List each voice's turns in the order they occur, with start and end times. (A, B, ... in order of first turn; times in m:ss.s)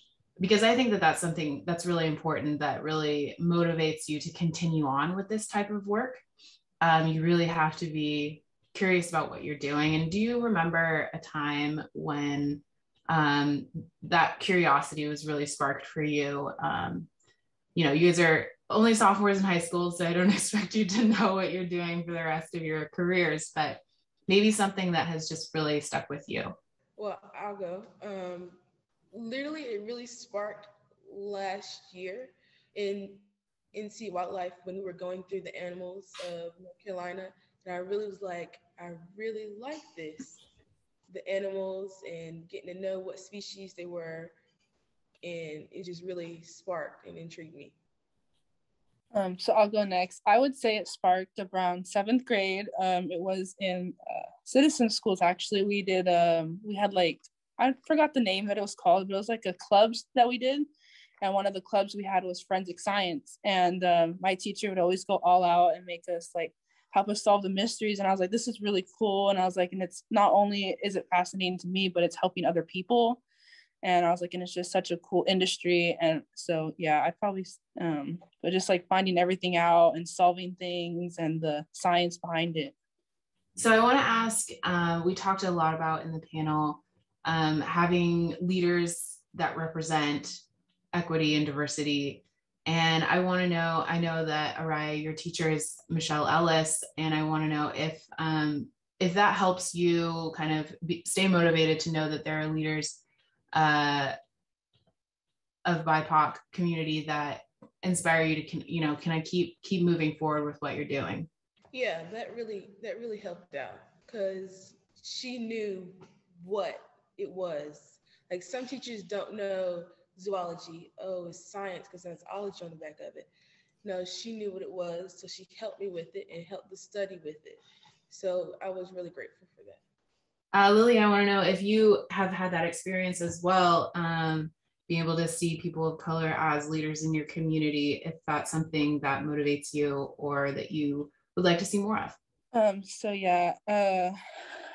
0:00.4-0:06.2 A
0:06.8-0:17.1 A
0:17.7-0:26.6 A
0:27.0-0:28.6 B
0:29.1-0:40.4 B
0:41.1-0:44.3 B
0:45.2-0:47.8 B
0:49.1-1:00.7 C
1:01.2-1:13.2 C
1:13.8-1:22.7 C
1:23.6-1:30.4 A
1:30.9-1:43.0 A
1:43.5-1:44.1 A
1:45.6-1:51.3 A
1:51.7-2:03.3 B
2:03.8-2:09.8 B
2:10.5-2:22.2 A
2:22.5-2:24.2 C